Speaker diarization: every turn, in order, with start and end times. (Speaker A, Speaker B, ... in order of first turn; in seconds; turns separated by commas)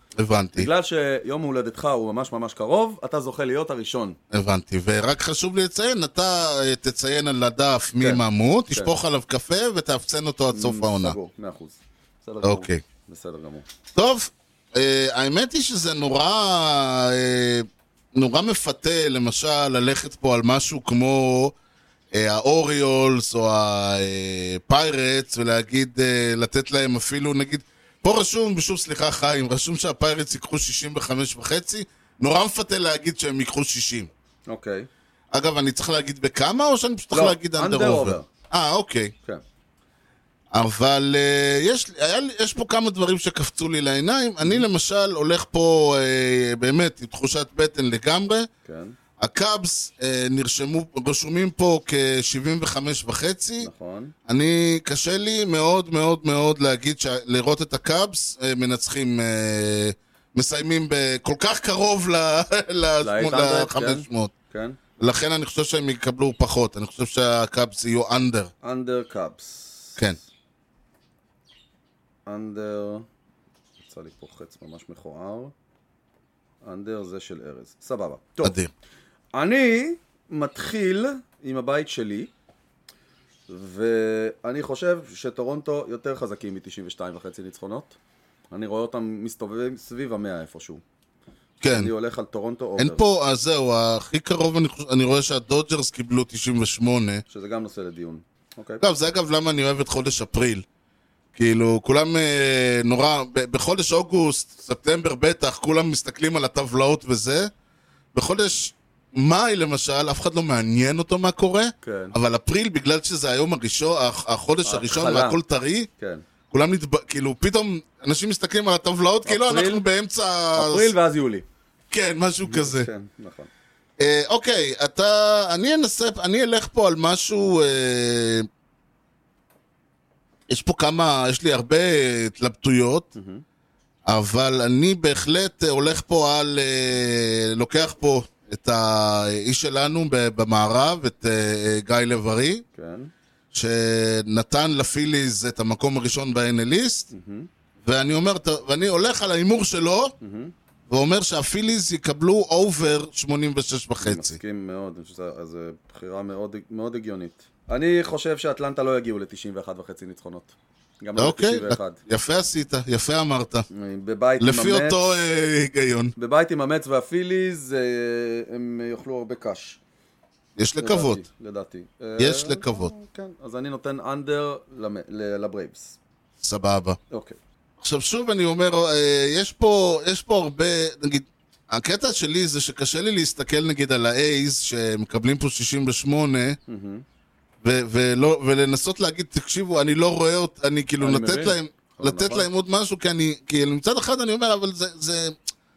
Speaker A: 0.2-0.7, Speaker B: 0.6-4.2, Speaker A: 4.3-11.2, Speaker B: 8.0-9.0, Speaker B: 10.5-13.7, Speaker A: 12.4-12.8, Speaker A: 13.9-21.6, Speaker A: 22.1-34.1, Speaker B: 34.5-34.9, Speaker A: 35.3-39.1, Speaker B: 37.1-38.3, Speaker A: 40.5-48.5, Speaker B: 48.6-49.0, Speaker A: 49.2-53.7, Speaker B: 53.6-54.1, Speaker A: 54.3-64.3, Speaker B: 63.0-64.8, Speaker A: 65.0-68.5, Speaker B: 68.6-70.1, Speaker B: 72.3-73.1, Speaker B: 73.8-75.5, Speaker B: 76.6-78.6, Speaker A: 78.4-78.7, Speaker B: 79.3-82.3, Speaker B: 83.5-88.0, Speaker B: 88.5-90.8, Speaker A: 91.6-91.9, Speaker B: 91.7-93.0, Speaker A: 92.8-97.2, Speaker B: 97.3-98.8, Speaker A: 98.8-100.7, Speaker A: 101.3-107.5, Speaker A: 108.1-115.9, Speaker B: 111.8-112.2, Speaker B: 114.6-115.4, Speaker B: 116.0-116.2, Speaker A: 116.5-120.9, Speaker B: 119.3-119.8, Speaker B: 120.5-121.5, Speaker A: 121.9-122.9, Speaker B: 122.5-123.5, Speaker A: 124.0-128.5, Speaker A: 130.5-133.1, Speaker B: 133.2-133.4, Speaker A: 134.1-142.6, Speaker B: 142.8-143.1, Speaker A: 143.5-147.1, Speaker B: 147.1-147.5, Speaker A: 147.8-150.2, Speaker B: 150.2-150.5, Speaker A: 150.9-154.4, Speaker B: 154.0-162.0, Speaker A: 161.2-163.7, Speaker B: 163.7-165.1, Speaker A: 164.4-166.1, Speaker B: 166.2-169.8, Speaker A: 170.6-171.2, Speaker B: 170.8-176.0, Speaker A: 172.2-172.9, Speaker A: 176.4-177.0, Speaker B: 177.1-177.4, Speaker A: 177.8-186.6, Speaker B: 186.7-187.1, Speaker A: 187.6-195.4, Speaker B: 191.0-192.5